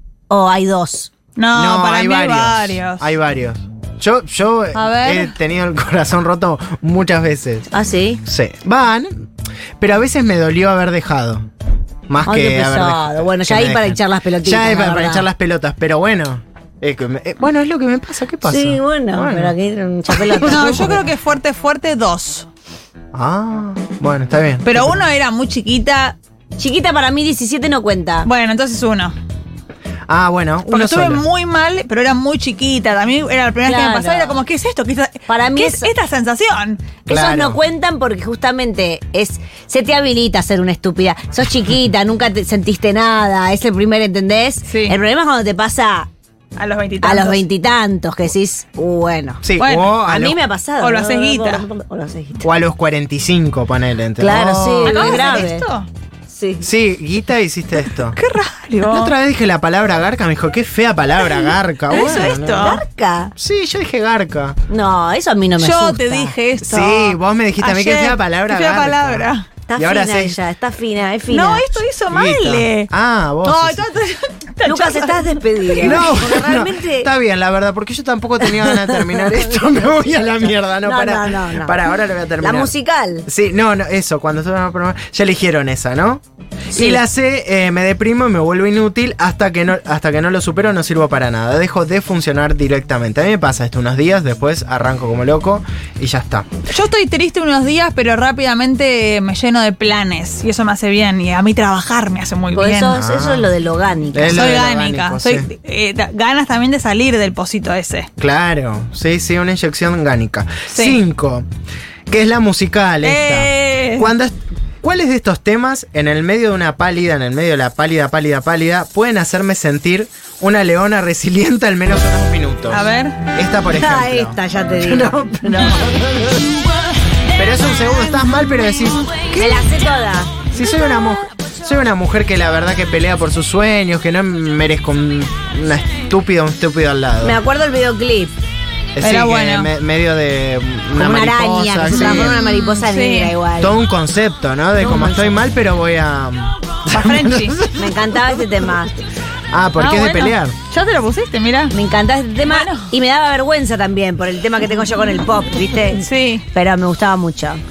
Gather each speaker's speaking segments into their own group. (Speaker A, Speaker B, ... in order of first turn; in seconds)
Speaker A: 0.3-1.1, 7.7-8.2, 12.2-15.3, 18.4-21.0, 26.6-28.3, 33.6-34.4, 35.3-35.9, 37.1-46.1, 47.0-49.4, 50.0-52.5, 54.2-55.7, 56.3-56.7, 62.1-63.3, 64.7-66.3, 69.7-71.7, 74.6-77.1, 78.5-81.8, 82.4-83.2, 86.7-87.0, 102.5-104.5, 123.7-126.3, 129.3-130.3, 137.2-138.3, 140.9-143.7, 147.8-148.9, 151.7-157.6
Speaker B: 1.4-3.0, 4.7-5.3, 20.4-22.5, 24.6-26.2, 28.2-29.1, 30.7-36.9, 44.7-45.0, 46.6-47.4, 49.6-49.9, 50.8-51.6, 54.8-55.9, 58.1-59.1, 61.3-62.8, 65.6-69.5, 71.3-72.9, 73.4-76.2, 96.7-103.0, 104.3-108.1, 110.7-111.0, 113.0-114.1, 122.7-123.2, 139.0-139.7, 141.9-143.3, 144.8-145.4, 146.9-147.6, 149.8-151.7, 152.5-152.9, 156.0-156.4
Speaker C: 1.5-7.7, 8.2-9.1, 9.8-11.4, 12.1-19.5, 20.1-20.9, 23.1-25.0, 30.1-31.2, 37.1-37.6, 49.4-50.4, 52.4-55.4, 56.6-58.2, 58.8-62.8, 63.4-64.6, 66.6-70.4, 72.1-73.8, 75.8-82.7, 83.2-96.5, 102.9-103.5, 104.1-105.5, 108.2-111.4, 112.1-126.5, 127.3-129.7, 130.5-137.4, 138.9-142.4, 143.6-148.5, 149.5-150.6